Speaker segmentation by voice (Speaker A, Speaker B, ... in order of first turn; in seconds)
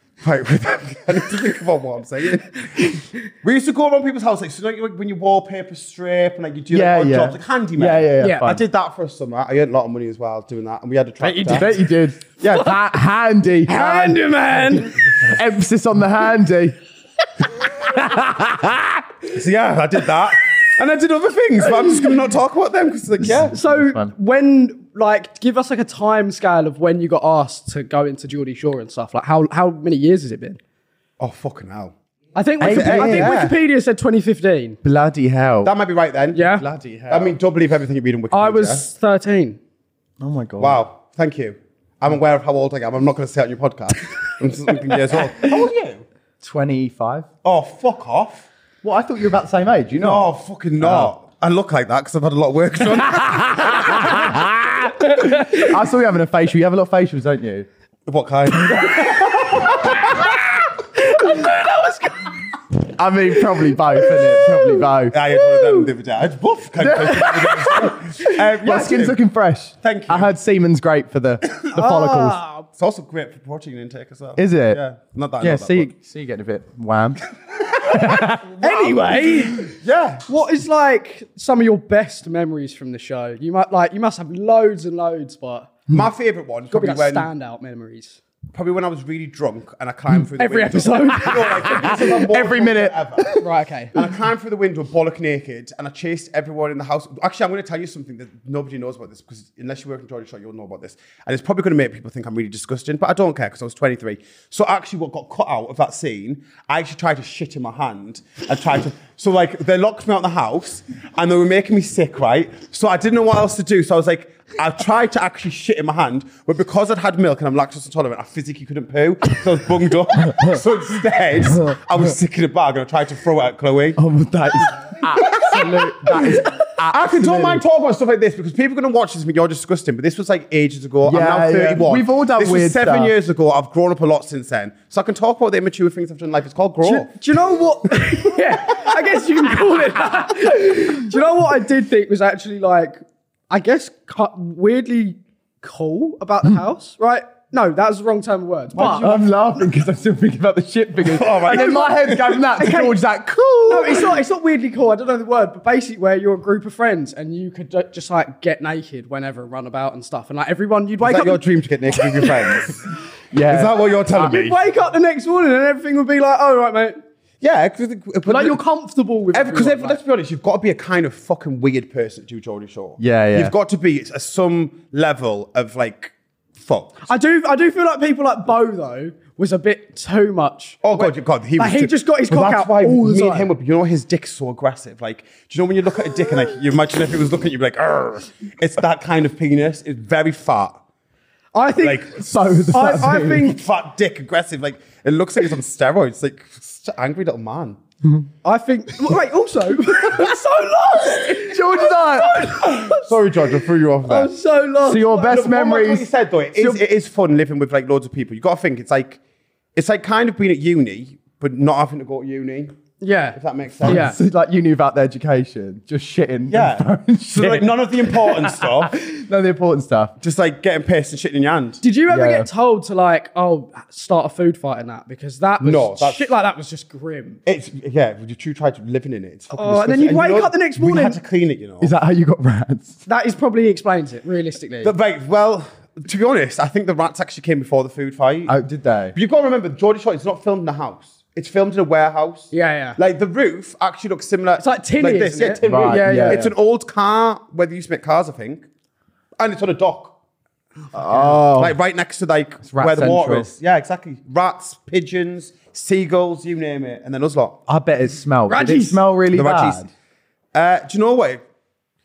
Speaker A: 0.2-11.8, 12.4-12.7, 19.3-23.6, 31.2-31.9, 32.6-33.6, 35.6-36.5, 37.1-38.9, 40.6-46.0, 47.4-48.5, 50.0-54.5, 58.1-60.3, 65.1-69.2, 69.8-70.3, 72.8-75.9, 77.7-80.4, 85.9-87.3, 88.5-93.3, 93.9-124.0, 124.7-137.1, 138.7-138.9, 151.0-152.5, 161.0-162.9, 163.5-164.6, 167.4-168.6, 169.3-177.1, 180.8-190.8, 191.8-197.8, 202.4-204.3, 205.1-209.2, 209.8-212.8, 213.3-214.1, 216.5-219.0, 220.2-221.8, 225.6-226.3, 227.5-231.9, 234.8-238.6, 239.1-248.7, 249.4-250.2, 251.1-257.6, 259.3-259.9, 260.5-261.4
Speaker B: 6.7-8.6, 11.5-16.8, 17.5-19.1, 23.2-24.1, 32.6-33.3, 34.8-35.7, 36.6-37.4, 40.2-40.8, 46.4-47.3, 48.8-51.1, 53.1-57.7, 58.7-60.0, 62.8-65.2, 66.8-72.4, 74.4-74.8, 75.4-78.5, 90.9-93.5, 120.2-120.6, 121.5-121.8, 124.0-127.6, 131.1-133.1, 140.6-140.9, 148.8-154.2, 163.3-163.8, 173.0-173.5, 192.2-193.5, 201.3-202.6, 204.8-206.1, 213.8-220.1, 222.1-222.5, 231.8-233.0, 238.5-239.2, 245.6-246.5, 250.9-251.8, 252.6-253.5, 257.7-259.9
Speaker C: 8.2-8.5, 11.2-11.8, 13.7-15.2, 23.5-30.6, 32.4-34.8, 36.3-36.6, 38.3-39.6, 60.0-60.4, 61.0-62.5, 63.7-65.9, 71.8-72.7, 78.1-79.7, 80.3-85.9, 86.7-88.2, 90.4-92.1, 93.4-94.0, 136.8-143.0, 143.5-149.2, 152.6-153.0, 153.7-161.4, 161.9-162.6, 164.1-167.0, 168.3-170.0, 177.1-183.5, 191.5-192.2, 192.7-193.6, 198.4-203.5, 204.0-205.2, 213.0-214.2, 221.8-227.4, 229.5-231.2, 233.1-234.9, 242.5-243.0, 244.6-246.5, 258.5-259.1